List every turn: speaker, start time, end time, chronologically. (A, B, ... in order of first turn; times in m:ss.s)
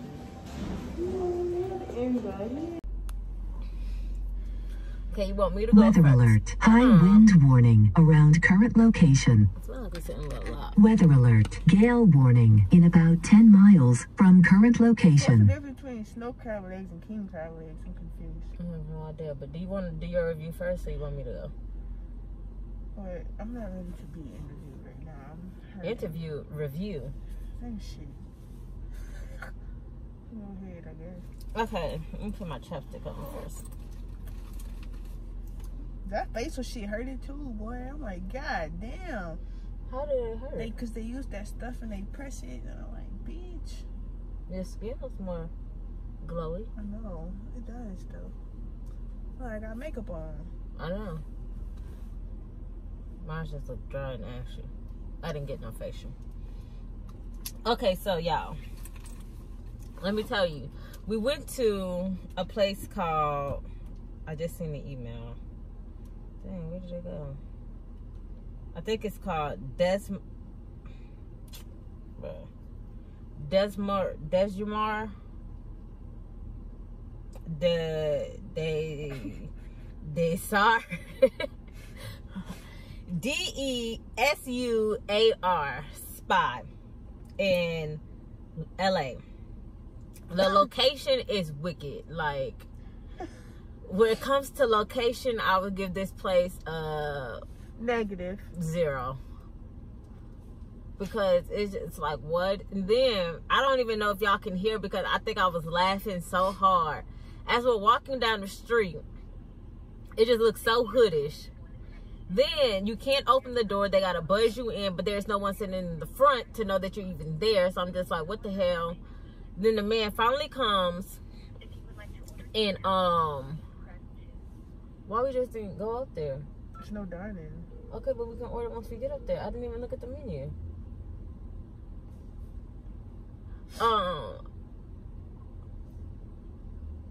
0:00.9-0:02.8 A
0:05.1-0:07.3 B
0:05.7-0:09.5 C
0:09.6-0:10.8 B
0:10.8-0:15.5 C
0:15.1-0:18.5 A
0:18.6-0:21.5 B
0:22.9-0:26.2 A
0:25.8-0:27.1 B
0:27.6-0:28.2 A
0:30.3-0:31.2 A
0:31.5-0:33.7 B
0:36.0-0:39.4 A
0:39.9-0:40.8 B
0:40.6-0:43.8 A
0:44.5-0:45.5 B
0:46.2-0:46.7 B
0:46.8-0:48.3 A
0:49.4-0:50.5 A
0:50.8-0:51.2 B
0:53.2-0:54.7 B
0:55.2-0:56.1 B
0:57.6-0:58.6 B
1:00.0-1:03.6 B
1:04.2-1:05.4 B
1:06.4-1:07.4 B
1:08.7-1:10.2 B
1:12.2-1:12.5 B
1:13.4-1:15.2 B
1:17.5-1:21.5 B
1:23.1-1:26.7 B
1:27.4-1:28.0 B
1:28.8-1:29.2 B
1:30.3-1:32.7 B
1:33.8-1:37.4 B
1:37.8-1:38.5 A
1:38.5-1:39.2 B
1:41.0-1:49.0 B
1:50.2-1:51.5 B
1:52.3-1:59.0 B
1:59.6-2:01.2 B
2:02.5-2:03.6 B
2:05.1-2:06.5 B
2:06.8-2:07.7 A
2:07.9-2:10.5 B
2:13.8-2:14.4 B